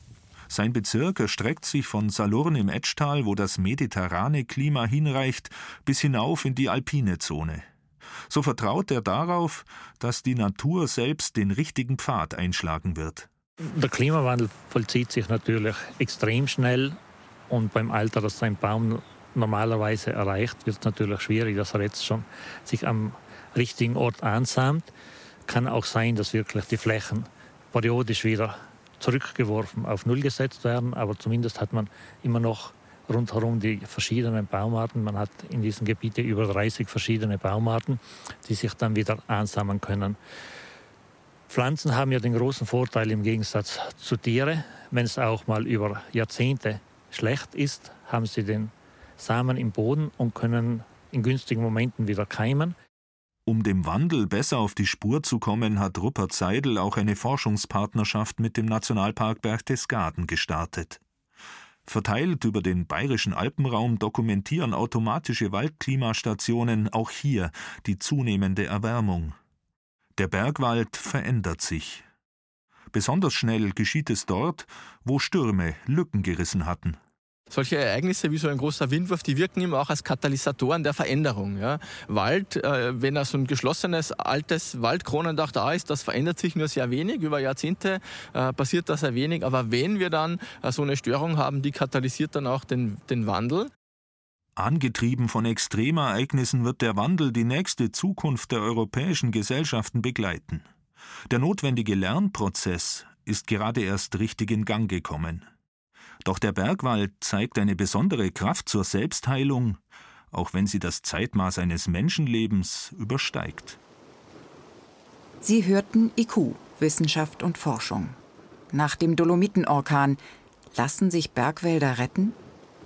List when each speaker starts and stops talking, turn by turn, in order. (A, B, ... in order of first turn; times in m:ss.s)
0:00.5-0:07.7 A
0:08.3-0:13.3 A
0:13.6-0:17.0 B
0:17.5-0:24.9 B
0:25.5-0:40.2 B
0:41.5-0:52.7 B
0:53.4-1:01.0 A
1:01.8-1:09.4 A
1:10.2-1:12.0 A
1:12.9-1:17.0 A
1:17.5-1:33.7 C
1:34.6-1:40.6 A
1:41.3-1:45.4 A
1:46.2-1:49.8 A
1:50.3-1:53.8 A
1:55.4-1:58.2 D
1:58.7-2:00.2 D
2:00.7-2:02.4 D